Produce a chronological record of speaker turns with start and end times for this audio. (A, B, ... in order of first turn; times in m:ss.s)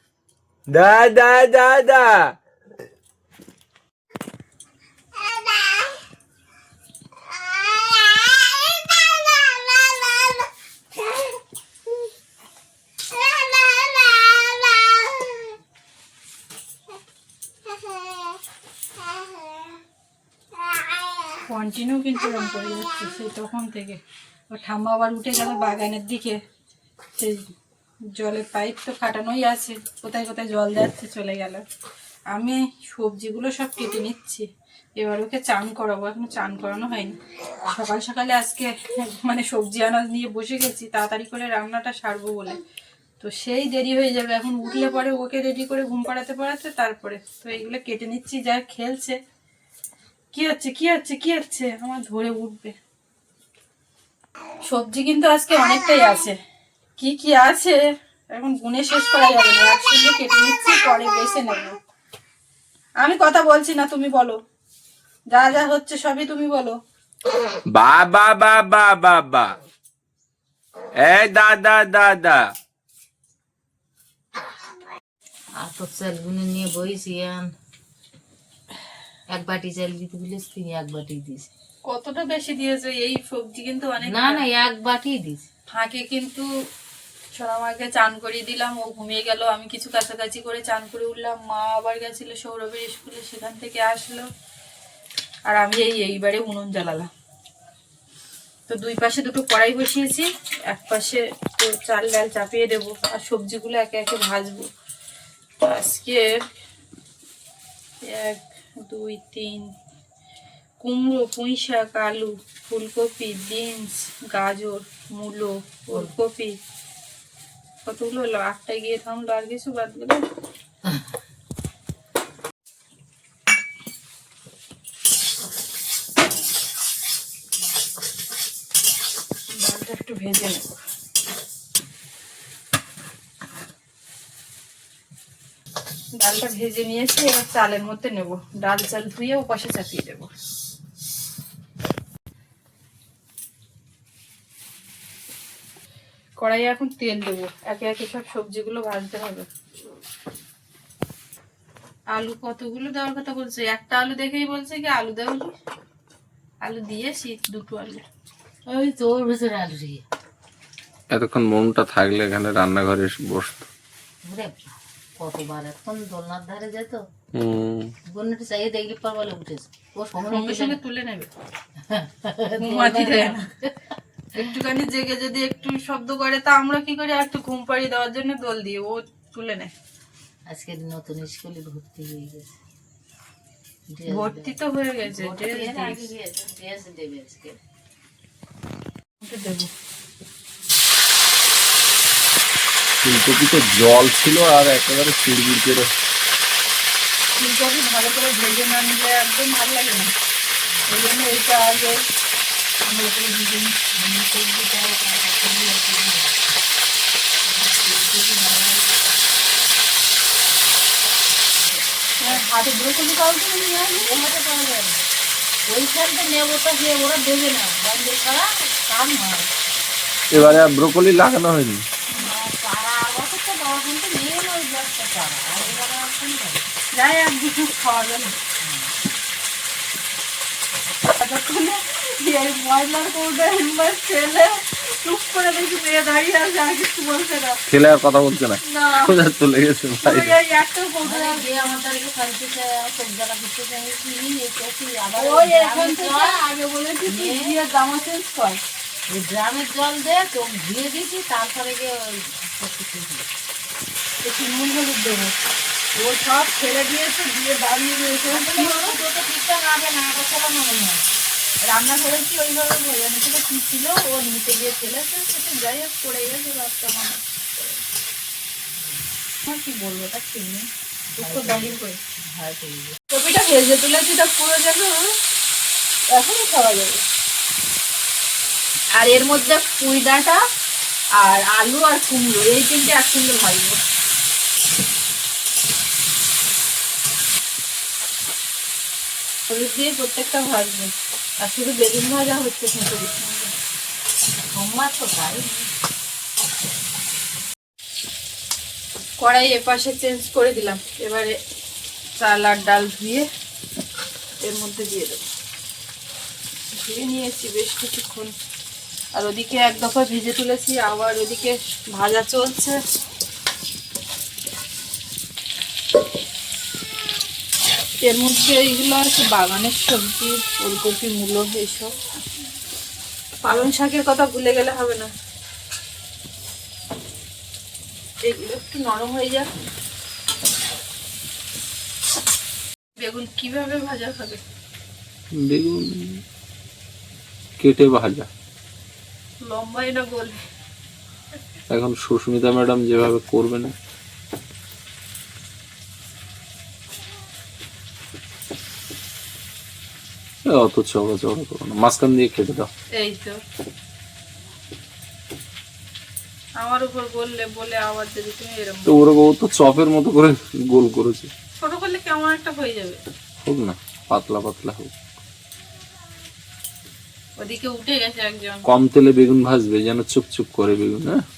0:00.7-0:02.3 A
0:21.5-0:24.0 B
0:24.5-0:26.4 B
0:27.2-0:27.5 B
0:28.2-0:31.6 B
0:32.3-0:34.5 B
0:35.0-0:42.6 B
0:43.2-0:49.2 B
0:50.3-0:52.8 B
0:54.7-0:56.3 B
0:57.0-1:01.8 B
1:03.0-1:04.4 B
1:05.3-1:06.8 B
1:07.7-1:09.5 A
1:11.0-1:12.4 A
1:15.6-1:17.5 C
1:19.3-1:21.5 C
1:21.9-1:24.4 B
1:24.0-1:25.5 C
1:25.7-1:26.5 B
1:27.3-1:34.3 B
1:35.5-1:37.1 B
1:38.7-1:44.7 B
1:45.6-1:46.4 B
1:48.0-1:49.7 B
1:50.8-1:56.6 B
1:57.9-2:00.2 B
2:00.8-2:01.1 C
2:09.6-2:10.8 B
2:16.2-2:20.3 B
2:26.4-2:29.5 B
2:32.1-2:35.5 B
2:36.6-2:38.0 B
2:38.7-2:40.0 C
2:41.1-2:43.7 A
2:44.2-2:47.1 C
2:47.3-2:47.9 A
2:48.1-2:50.8 C
2:50.2-2:51.3 B
2:51.8-2:54.5 C
2:52.6-2:53.5 B
2:54.4-2:59.7 B
3:00.5-3:02.5 C
3:03.9-3:07.6 C
3:04.1-3:06.1 B
3:09.2-3:09.7 B
3:13.0-3:15.9 A
3:17.4-3:20.1 B
3:20.9-3:22.0 B
3:22.8-3:23.7 B
3:23.9-3:26.4 C
3:27.4-3:29.4 C
3:31.6-3:32.5 C
3:32.2-3:34.1 B
3:34.0-3:35.0 C
3:35.7-3:39.5 C
3:40.3-3:41.8 A
3:42.2-3:46.7 C
3:46.9-3:48.4 B
3:48.6-3:48.9 C
3:51.2-3:57.6 B
3:57.7-4:00.4 A
3:58.6-3:59.2 B
4:00.0-4:01.4 B
4:01.0-4:06.4 C
4:05.1-4:08.6 B
4:07.1-4:07.5 C
4:09.1-4:13.3 C
4:14.2-4:15.4 B
4:16.0-4:19.0 B
4:18.3-4:21.1 C
4:21.7-4:27.8 B
4:28.7-4:29.1 C
4:29.5-4:30.0 B
4:29.9-4:30.6 C
4:31.2-4:32.0 B
4:31.2-4:33.0 C
4:33.1-4:35.2 B
4:36.1-4:37.0 B
4:38.9-4:40.4 B
4:41.2-4:43.8 B
4:49.5-4:53.5 B
4:54.5-4:55.7 C
4:59.2-5:01.4 B
5:02.2-5:03.3 B
5:04.4-5:05.3 B
5:06.7-5:08.3 B
5:09.2-5:12.8 B
5:18.0-5:21.9 B
5:23.4-5:25.1 B
5:28.2-5:29.5 B
5:33.0-5:34.4 B
5:35.3-5:36.2 A
5:37.6-5:38.3 A
5:39.4-5:40.4 B
5:41.7-5:43.7 A
5:50.5-5:52.7 A
5:52.9-5:53.4 B
5:56.6-5:59.0 B
5:58.9-6:01.3 A
6:01.6-6:03.0 B
6:03.4-6:04.9 A
6:07.4-6:08.6 B
6:08.6-6:11.2 A